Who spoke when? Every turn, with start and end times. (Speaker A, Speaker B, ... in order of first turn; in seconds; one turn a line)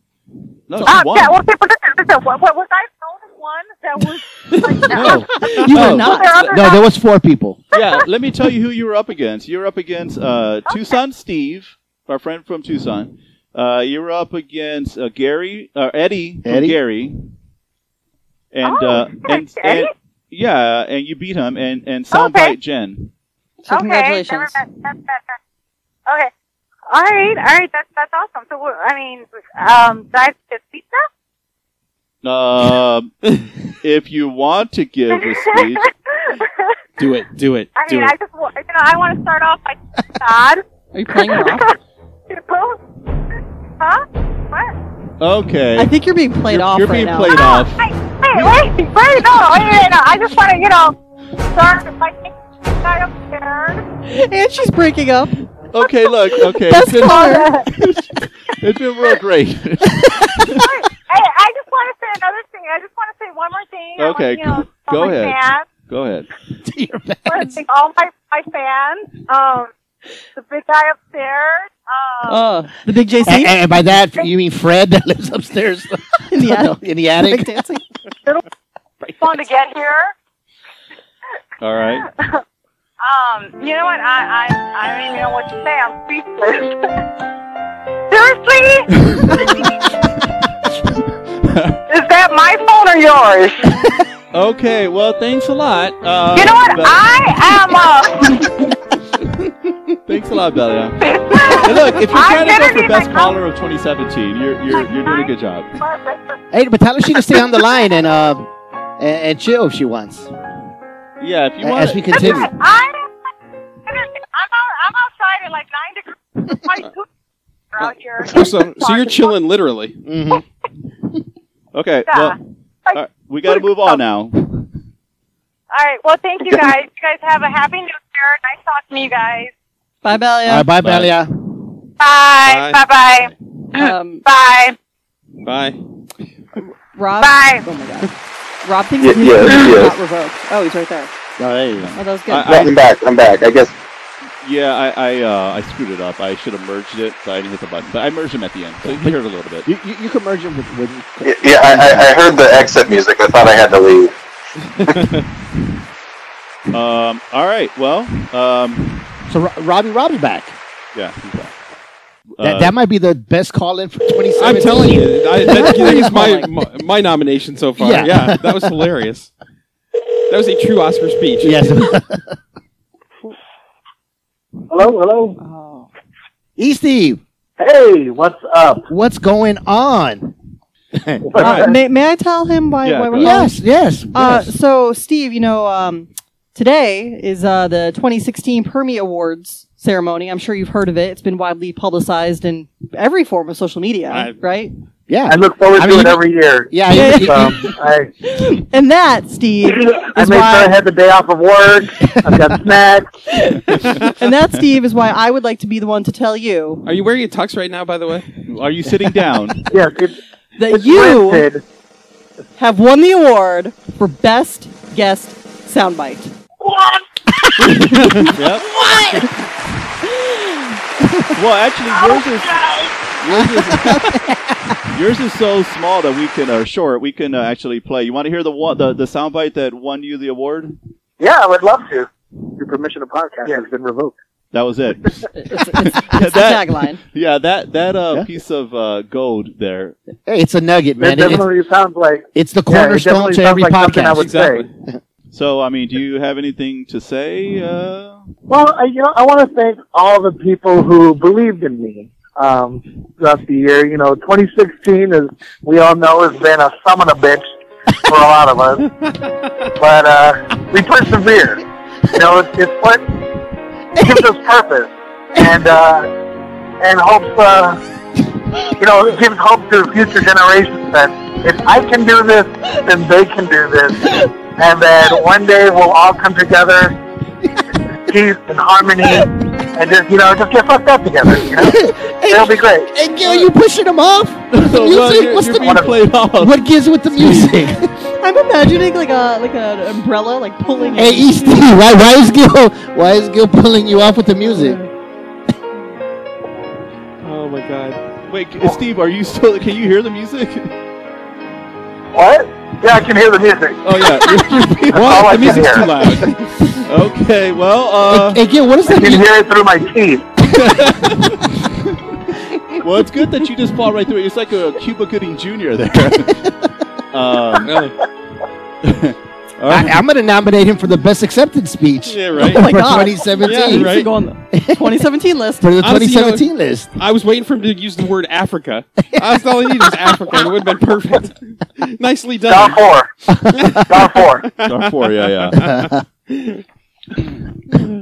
Speaker A: 0.7-1.4
Speaker B: 0.8-6.9
Speaker A: 4.9-6.4
Speaker C: 5.5-6.5
Speaker D: 6.5-7.6
Speaker A: 7.7-17.3
Speaker B: 7.7-8.1
Speaker B: 10.7-11.0
Speaker D: 16.4-16.8
Speaker A: 18.5-23.1
Speaker B: 18.6-19.9
Speaker B: 22.1-22.6
Speaker C: 23.6-24.6
Speaker B: 23.7-25.4
Speaker B: 26.9-31.0
Speaker A: 32.2-33.1
Speaker A: 33.8-35.8
Speaker B: 35.1-36.7
Speaker E: 37.0-38.1
Speaker B: 37.7-40.6
Speaker C: 40.9-41.7
Speaker B: 41.1-41.7
Speaker B: 42.3-42.8
Speaker B: 43.8-44.7
Speaker A: 45.2-45.9
Speaker C: 45.7-47.4
Speaker A: 46.5-48.6
Speaker B: 47.3-53.8
Speaker C: 54.1-55.4
Speaker A: 55.7-58.0
Speaker B: 56.0-57.7
Speaker C: 56.6-57.5
Speaker A: 58.6-60.6
Speaker B: 60.5-65.7
Speaker A: 64.0-66.3
Speaker D: 66.6-67.5
Speaker B: 67.2-69.7
Speaker B: 70.3-72.5
Speaker C: 72.2-73.5
Speaker D: 73.2-77.6
Speaker C: 76.3-77.8
Speaker B: 79.0-80.1
Speaker A: 81.6-82.0
Speaker B: 83.0-86.9
Speaker B: 88.1-89.7
Speaker A: 91.4-91.8
Speaker B: 91.9-93.8
Speaker A: 94.3-97.5
Speaker B: 96.3-98.7
Speaker A: 100.0-105.7
Speaker B: 101.0-103.4
Speaker B: 104.7-106.4
Speaker D: 106.5-110.3
Speaker B: 107.2-107.7
Speaker A: 111.2-112.5
Speaker D: 111.6-112.5
Speaker B: 112.1-113.1
Speaker B: 113.8-117.0
Speaker B: 117.7-119.3
Speaker E: 117.8-120.0
Speaker D: 120.0-120.4
Speaker A: 121.7-122.4
Speaker B: 122.1-124.0
Speaker A: 122.9-124.7
Speaker B: 125.7-129.5
Speaker C: 130.0-130.7
Speaker D: 130.4-131.3
Speaker A: 130.8-131.1
Speaker B: 132.0-134.8
Speaker E: 132.4-132.8
Speaker C: 133.7-134.2
Speaker E: 135.4-135.8
Speaker C: 136.9-138.1
Speaker B: 137.2-137.6
Speaker C: 138.6-141.1
Speaker F: 139.0-139.9
Speaker D: 141.4-141.9
Speaker A: 141.8-142.8
Speaker C: 141.9-142.6
Speaker F: 142.4-143.7
Speaker A: 144.4-149.7
Speaker D: 148.8-152.7
Speaker F: 151.2-154.1
Speaker A: 156.7-159.1
Speaker D: 159.3-160.6
Speaker A: 160.9-161.5
Speaker A: 162.3-162.7
Speaker D: 162.4-166.0
Speaker E: 164.3-169.3
Speaker C: 165.5-166.5
Speaker D: 167.8-168.4
Speaker E: 170.3-171.9
Speaker D: 171.4-172.2
Speaker G: 174.7-175.3
Speaker C: 175.4-175.9
Speaker D: 176.6-177.2
Speaker G: 177.7-178.8
Speaker D: 178.9-180.3
Speaker D: 180.9-181.4
Speaker A: 181.4-181.7
Speaker C: 181.4-194.7
Speaker A: 182.8-183.4
Speaker D: 183.2-184.5
Speaker D: 195.1-197.7
Speaker G: 195.7-196.6
Speaker C: 196.9-197.7
Speaker G: 197.8-198.1
Speaker C: 198.2-200.8
Speaker G: 200.2-203.0
Speaker C: 203.3-206.8
Speaker E: 206.8-208.3
Speaker A: 208.5-209.7
Speaker G: 209.7-210.1
Speaker C: 210.6-211.5
Speaker G: 210.7-211.6
Speaker C: 212.6-216.3
Speaker A: 218.3-218.8
Speaker D: 218.8-219.2
Speaker A: 221.3-222.6
Speaker A: 223.2-224.3
Speaker D: 223.3-224.3
Speaker A: 224.9-230.8
Speaker G: 232.6-234.2
Speaker A: 234.5-240.0
Speaker C: 235.3-237.0
Speaker D: 240.2-241.5
Speaker G: 241.0-244.6
Speaker D: 242.3-244.3
Speaker E: 244.2-244.7
Speaker A: 245.3-248.3
Speaker G: 248.5-257.4
Speaker G: 258.1-258.8
Speaker G: 259.8-261.6
Speaker G: 262.2-263.0
Speaker D: 264.0-264.3
Speaker G: 264.0-264.9
Speaker G: 265.4-266.0
Speaker G: 266.8-267.7
Speaker G: 268.8-273.9
Speaker G: 274.6-276.9
Speaker G: 278.1-281.8
Speaker D: 281.5-287.9
Speaker G: 282.3-282.8
Speaker A: 284.5-286.6
Speaker A: 287.2-287.5
Speaker C: 288.2-291.6
Speaker D: 290.9-294.8
Speaker E: 297.2-298.0
Speaker A: 298.3-300.7
Speaker G: 302.2-303.8
Speaker A: 303.8-306.3
Speaker E: 304.9-306.5
Speaker G: 305.0-305.8
Speaker A: 306.9-308.4
Speaker D: 308.0-309.3
Speaker G: 309.0-310.2
Speaker A: 310.5-311.4
Speaker A: 312.8-316.4
Speaker A: 317.1-317.9
Speaker E: 317.6-317.9
Speaker A: 318.8-320.0
Speaker D: 319.7-325.0
Speaker E: 322.1-322.6
Speaker C: 322.4-325.7
Speaker E: 323.4-324.1
Speaker D: 325.6-326.9
Speaker E: 325.8-332.9
Speaker G: 332.5-333.0
Speaker E: 333.6-335.1
Speaker G: 333.9-334.4
Speaker A: 334.6-335.6